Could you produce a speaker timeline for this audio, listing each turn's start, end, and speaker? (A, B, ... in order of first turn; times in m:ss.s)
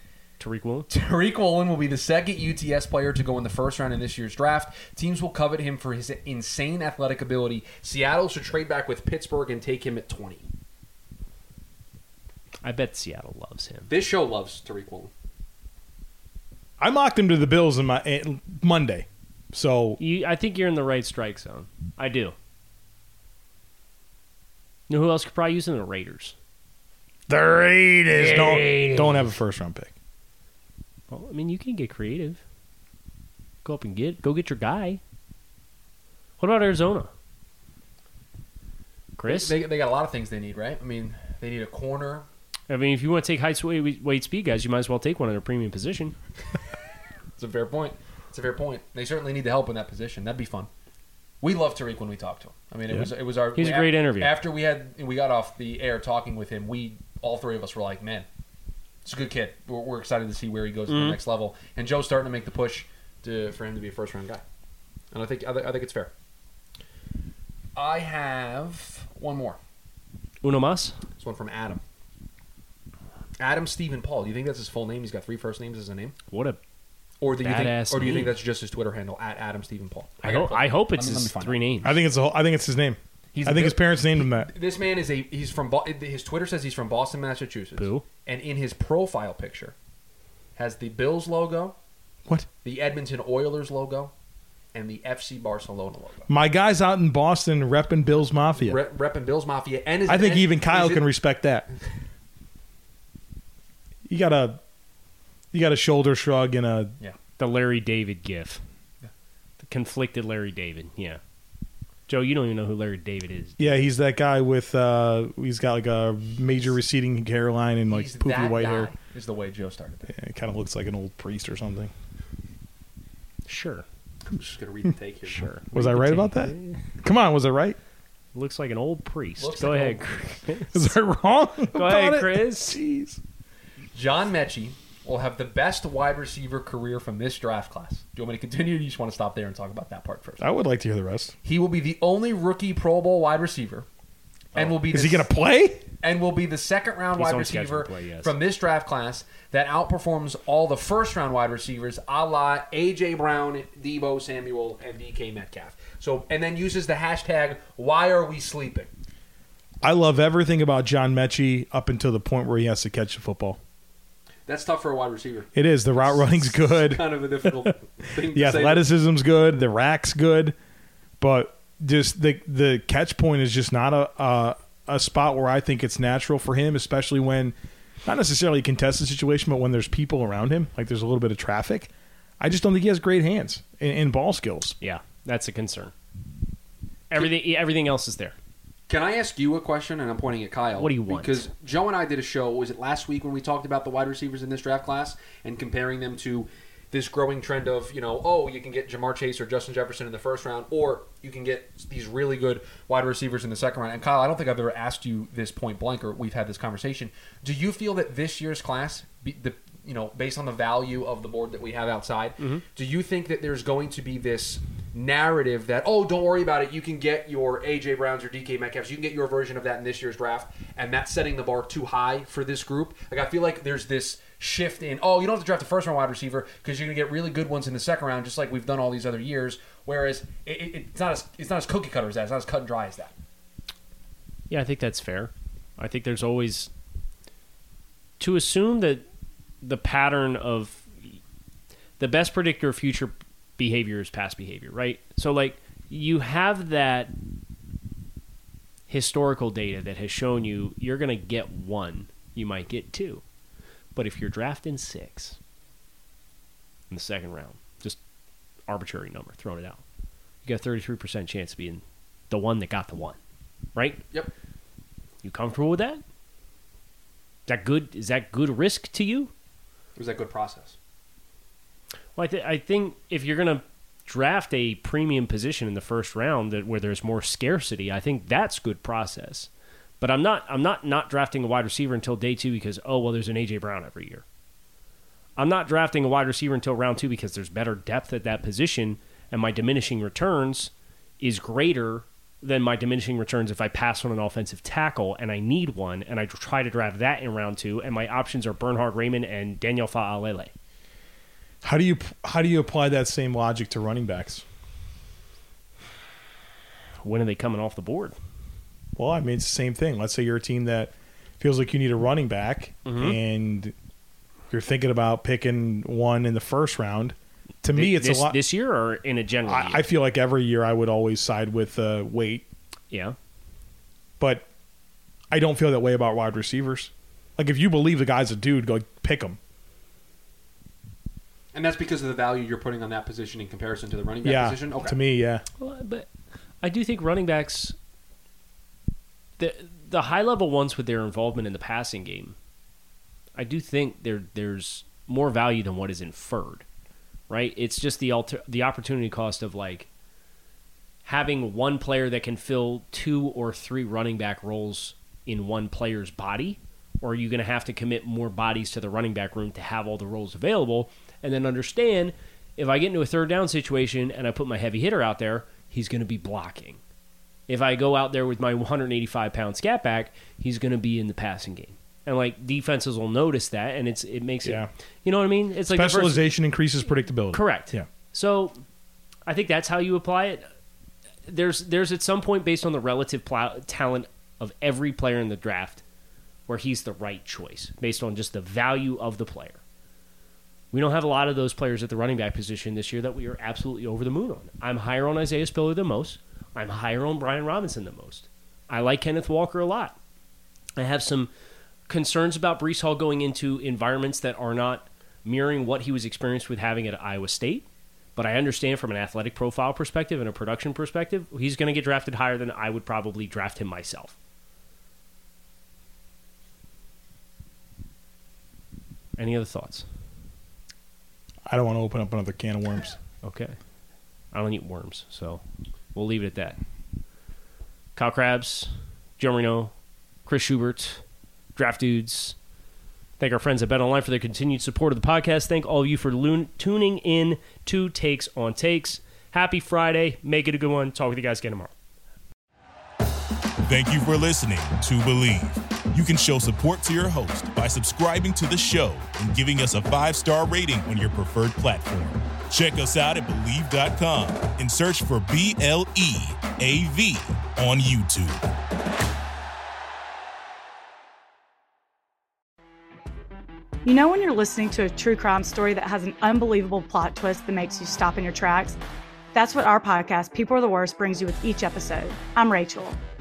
0:00.4-0:00.9 A
0:00.9-0:10.4 B
0:12.6-0:13.9 A
0:13.9-0:15.1 B
0:16.8-0:20.0 C
0:20.0-0:22.4 A
0:24.9-0:26.4 A
0:27.3-0:29.9 C
0:28.1-0:29.3 A
0:31.1-0:32.4 A
0:33.6-0:35.0 A
0:36.4-0:37.1 A
0:39.2-0:39.6 A
0:39.3-0:42.2 B
0:42.7-0:46.2 A
0:47.4-0:50.7 B
0:51.4-0:58.3 B
0:53.6-0:54.4 A
0:59.0-1:04.4 B
1:00.9-1:01.2 A
1:05.1-1:06.1 B
1:07.8-1:09.6 B
1:10.4-1:11.0 A
1:11.2-1:11.8 B
1:13.4-1:16.2 B
1:16.3-1:16.6 A
1:17.2-1:21.6 B
1:17.3-1:18.4 A
1:20.2-1:22.0 A
1:21.8-1:24.5 C
1:23.3-1:29.7 B
1:27.8-1:28.0 A
1:30.6-1:31.8 B
1:32.6-1:34.1 B
1:34.7-1:36.3 B
1:36.3-1:38.8 C
1:38.6-1:41.1 B
1:40.1-1:41.7 C
1:44.1-1:44.6 C
1:45.5-1:47.0 C
1:47.4-1:48.6 A
1:49.6-1:51.2 A
1:52.1-1:53.8 A
1:53.6-1:58.9 C
1:57.9-2:00.1 B
2:00.1-2:01.9 C
2:03.5-2:03.8 A
2:04.3-2:05.5 B
2:05.3-2:06.8 A
2:05.7-2:07.8 C
2:08.3-2:10.9 A
2:09.4-2:10.1 B
2:10.7-2:13.2 C
2:11.7-2:12.8 A
2:13.9-2:20.5 B
2:20.4-2:21.4 C
2:21.4-2:23.9 B
2:24.6-2:25.3 B
2:24.9-2:25.8 C
2:26.0-2:38.9 B
2:27.2-2:28.3 A
2:39.8-2:43.6 C
2:44.5-2:48.9 B
2:45.6-2:47.7 C
2:48.3-2:50.6 C
2:51.2-2:57.6 C
2:58.1-3:04.8 C
3:04.8-3:05.9 A
3:07.1-3:08.4 A
3:08.9-3:53.1 B
3:10.8-3:11.4 A
3:54.5-3:56.7 A
3:58.2-3:59.0 A
3:59.6-4:01.2 A
4:02.0-4:07.2 A
4:08.9-4:13.2 A
4:14.0-4:15.4 A
4:16.9-4:18.0 A
4:18.7-4:19.8 A
4:20.4-4:23.2 A
4:23.8-4:24.0 A
4:25.2-4:26.0 A
4:27.5-4:29.3 A
4:30.0-4:30.8 B
4:32.2-4:39.5 A
4:40.0-4:44.2 A
4:45.4-5:00.5 A
5:01.6-5:04.4 C
5:07.0-5:08.2 A
5:09.0-5:13.7 C
5:12.8-5:13.2 A
5:14.5-5:18.4 C
5:17.7-5:19.8 A
5:19.5-5:22.5 C
5:22.9-5:23.2 A
5:24.2-5:24.5 C
5:25.3-5:29.4 C
5:31.5-5:35.0 B
5:34.2-5:35.4 C
5:35.6-5:36.1 A
5:36.6-5:37.8 A
5:39.4-5:42.4 A
5:43.4-5:46.6 A
5:47.3-5:49.9 A
5:51.0-6:06.8 A
6:07.5-6:16.2 A
6:14.4-6:14.7 C
6:15.7-6:17.9 C
6:17.3-6:18.6 A
6:19.3-6:20.5 A
6:21.3-6:25.8 A
6:26.5-6:29.6 A
6:30.7-6:40.0 A
6:40.8-6:41.3 A
6:41.9-6:54.2 A
6:59.2-6:59.9 A
7:01.5-7:03.0 C
7:03.2-7:03.6 A
7:04.3-7:05.4 A
7:05.9-7:06.6 A
7:08.0-7:09.7 A
7:10.3-7:11.0 A
7:11.6-7:12.4 A
7:13.2-7:21.7 A
7:23.7-7:38.5 D
7:43.8-7:48.8 E
7:49.3-7:53.0 E